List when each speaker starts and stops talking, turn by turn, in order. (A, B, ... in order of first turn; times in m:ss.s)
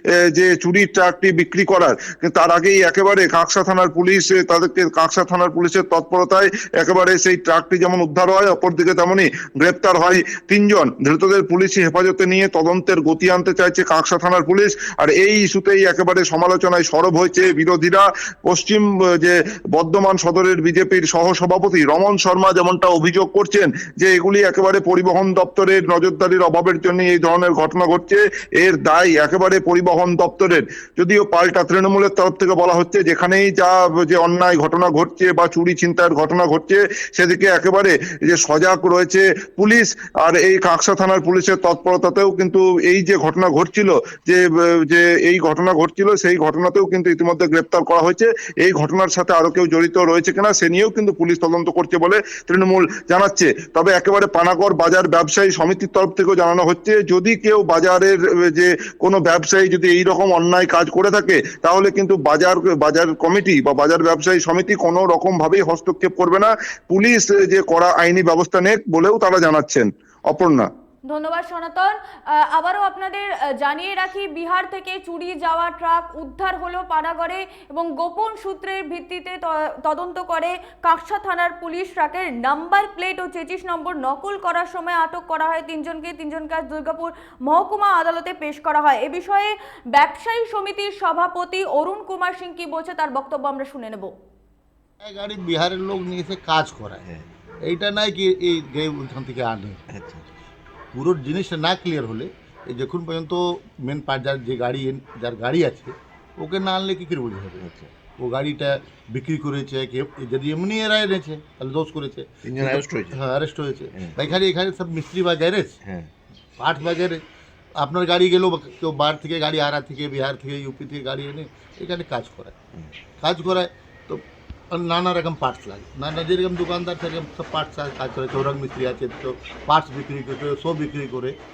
0:00.3-1:10.7 A
1:11.1-1:34.1 B
1:35.0-1:37.1 C
1:37.6-1:39.8 C
1:39.9-1:40.2 D
1:40.9-1:55.8 C
1:47.6-1:47.9 D
1:52.4-1:53.2 D
1:54.0-1:54.4 D
1:55.8-1:56.1 D
1:56.6-1:57.2 C
1:57.8-2:02.6 C
2:03.2-2:11.3 C